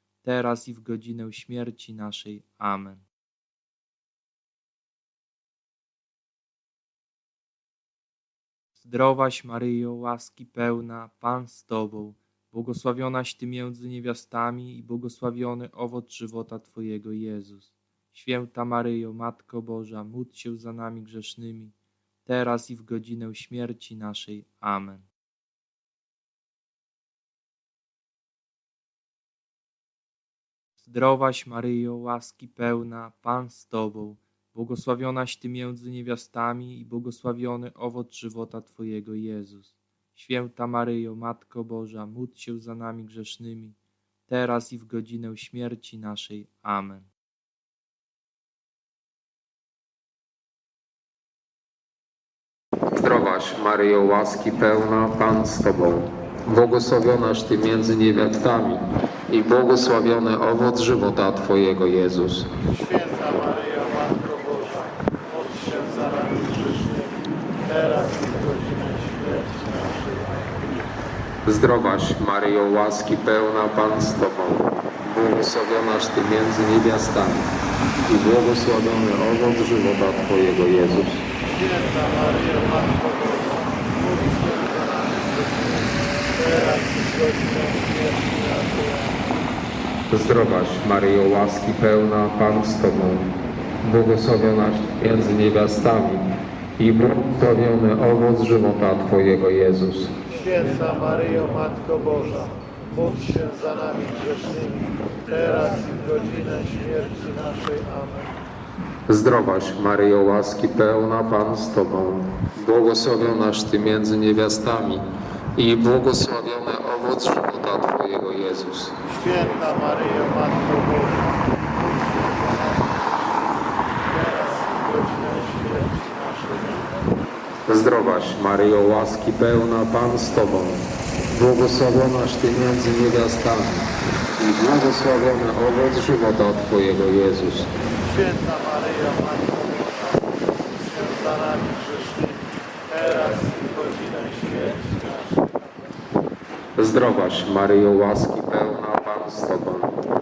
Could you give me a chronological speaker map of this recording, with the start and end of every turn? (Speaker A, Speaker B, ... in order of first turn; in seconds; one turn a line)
Speaker A: 0.2-3.0
Speaker A: 8.8-21.7
Speaker A: 22.2-25.1
Speaker A: 30.8-47.1
Speaker B: 52.9-62.5
Speaker C: 62.7-70.4
Speaker B: 71.4-77.5
Speaker B: 78.1-81.2
Speaker C: 81.5-85.7
Speaker C: 86.3-89.2
Speaker B: 90.1-100.2
Speaker C: 100.3-108.3
Speaker B: 109.1-119.0
Speaker C: 119.1-122.7
Speaker C: 124.1-126.8
Speaker B: 127.7-137.7
Speaker C: 138.1-145.2
Speaker B: 146.8-150.0